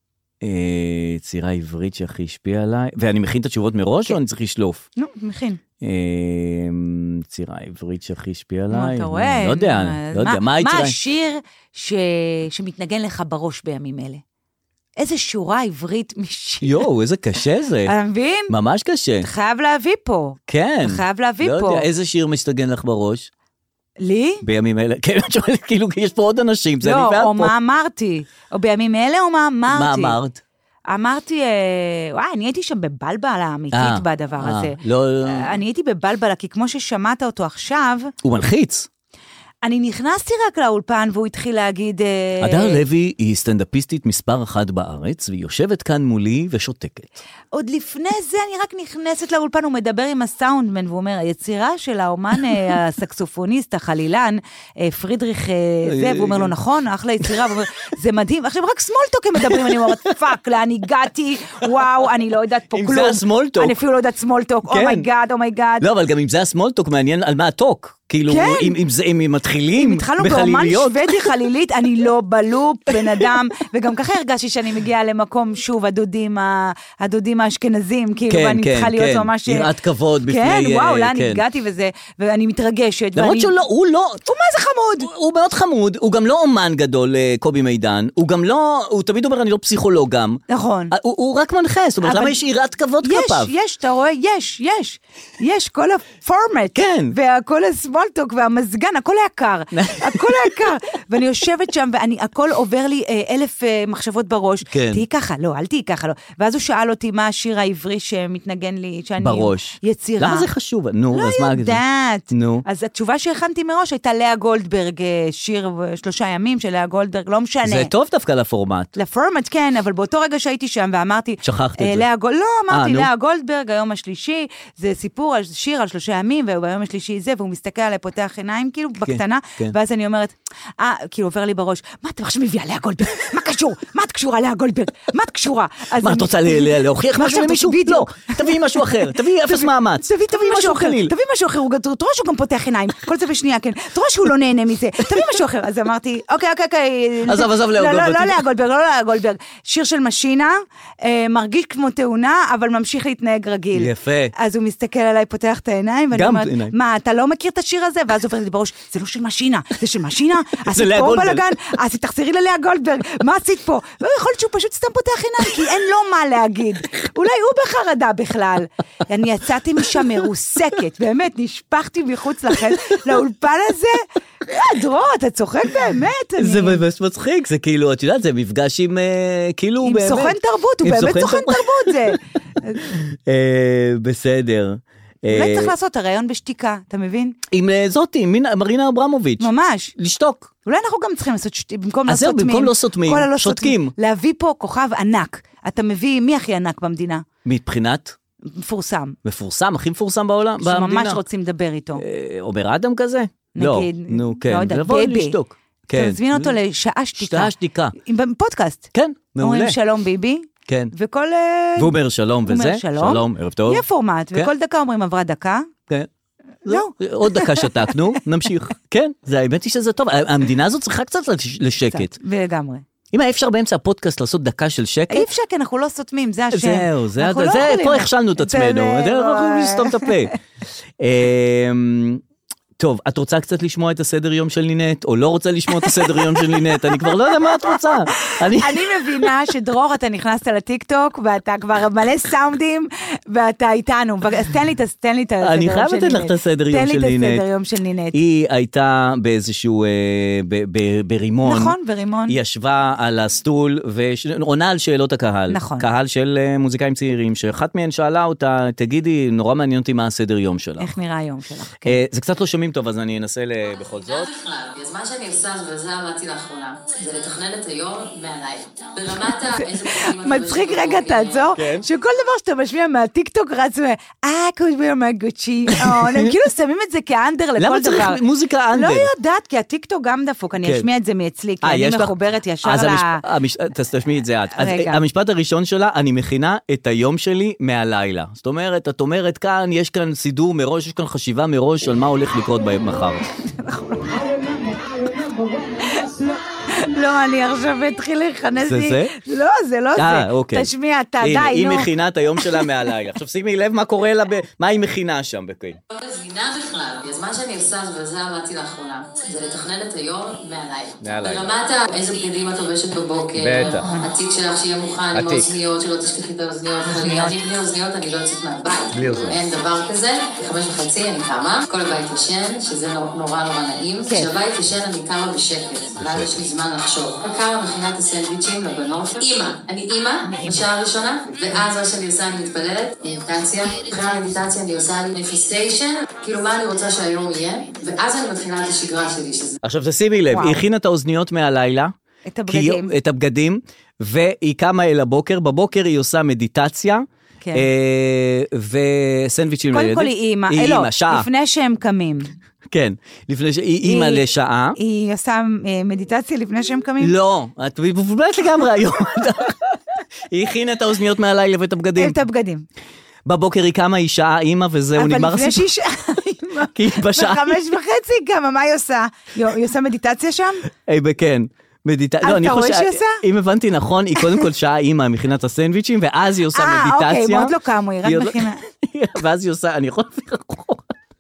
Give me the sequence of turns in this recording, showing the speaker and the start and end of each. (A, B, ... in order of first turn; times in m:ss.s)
0:00.4-0:04.9 A
0:05.0-0:05.6 B
0:05.8-0:11.0 A
0:08.7-0:14.2 B
0:15.0-0:16.8 B
0:16.6-0:17.9 A
0:17.9-0:18.5 B
0:18.5-0:19.3 A
0:19.2-0:21.8 B
0:20.5-0:23.3 A
0:24.0-0:24.4 B
0:24.4-0:27.5 A
0:26.8-0:30.2 B
0:29.7-0:30.4 A
0:30.9-0:38.1 B
0:33.7-0:35.5 A
0:38.2-0:38.9 A
0:39.6-0:42.8 B
0:42.4-0:47.1 A
0:47.5-1:05.9 B
0:55.9-0:56.5 A
0:57.2-0:57.6 A
0:59.5-1:00.0 A
1:02.7-1:03.8 A
1:04.7-1:05.1 A
1:05.8-1:11.3 A
1:08.3-1:08.8 B
1:09.8-1:19.7 B
1:18.3-1:21.4 A
1:20.2-1:23.5 B
1:23.2-1:24.2 A
1:24.3-1:25.1 B
1:25.0-1:33.5 A
1:30.5-1:30.9 B
1:32.0-1:32.4 B
1:33.0-1:50.5 B
1:36.8-1:37.1 A
1:39.7-1:40.5 A
1:44.7-1:45.0 A
1:49.2-1:52.6 A
1:51.1-1:57.9 B
1:57.6-1:58.9 A
1:59.0-2:18.9 B
2:01.4-2:02.1 A
2:02.7-2:03.1 A
2:09.0-2:09.8 A
2:16.0-2:21.1 A
2:19.4-2:56.8 B
2:27.3-2:28.4 A
2:33.7-2:34.3 A
2:36.1-2:36.7 A
2:40.7-2:41.4 A
2:56.4-3:02.2 A
2:59.8-3:02.8 B
3:02.8-3:05.7 A
3:05.3-3:07.4 B
3:07.5-3:10.5 A
3:09.4-3:09.9 B
3:10.6-3:17.2 B
3:12.1-3:13.9 A
3:17.4-3:18.2 A
3:18.5-3:19.2 B
3:19.2-3:21.2 A
3:20.6-3:22.0 B
3:22.0-3:26.5 A
3:23.6-3:25.4 B
3:25.9-3:28.9 B
3:27.2-3:28.0 A
3:28.9-3:29.8 A
3:29.4-3:31.9 B
3:30.7-3:30.9 A
3:31.8-3:34.5 A
3:32.5-3:35.7 B
3:36.6-3:42.2 A
3:36.7-3:37.9 B
3:41.9-3:42.8 B
3:43.1-3:45.3 A
3:45.1-3:50.2 B
3:46.5-3:50.4 A
3:51.0-3:52.2 A
3:52.8-3:59.0 A
3:55.8-3:56.6 B
3:58.3-4:08.2 B
4:05.4-4:07.4 A
4:08.1-4:11.8 A
4:11.4-4:12.4 B
4:12.3-4:20.9 A
4:15.5-4:15.9 B
4:20.8-4:22.0 B
4:21.8-4:24.3 A
4:24.0-4:31.5 C
4:29.6-4:38.2 B
4:31.6-4:31.8 A
4:35.8-4:36.3 A
4:37.6-4:39.1 A
4:38.7-4:43.2 B
4:41.6-4:53.2 A
4:44.6-4:45.0 B
4:53.5-5:02.7 B
4:58.6-4:59.2 A
5:00.0-5:00.7 A
5:01.2-5:05.8 A
5:05.9-5:39.6 C
5:11.0-5:11.5 A
5:13.4-5:13.9 A
5:15.1-5:15.5 A
5:16.9-5:17.3 B
5:18.9-5:19.4 A
5:24.0-5:24.3 B
5:39.6-5:41.9 A
5:40.3-5:40.6 B
5:42.3-5:42.9 B
5:42.5-5:51.3 A
5:49.7-5:52.3 B
5:52.7-5:54.8 A
5:53.8-5:54.2 B
5:54.8-5:57.1 B
5:57.0-5:59.7 A
6:00.3-6:02.2 A
6:02.0-6:02.7 B
6:03.3-6:05.7 A
6:05.0-6:10.7 B
6:06.8-6:07.6 A
6:10.9-6:20.8 A
6:12.2-6:13.2 B
6:16.5-6:18.6 B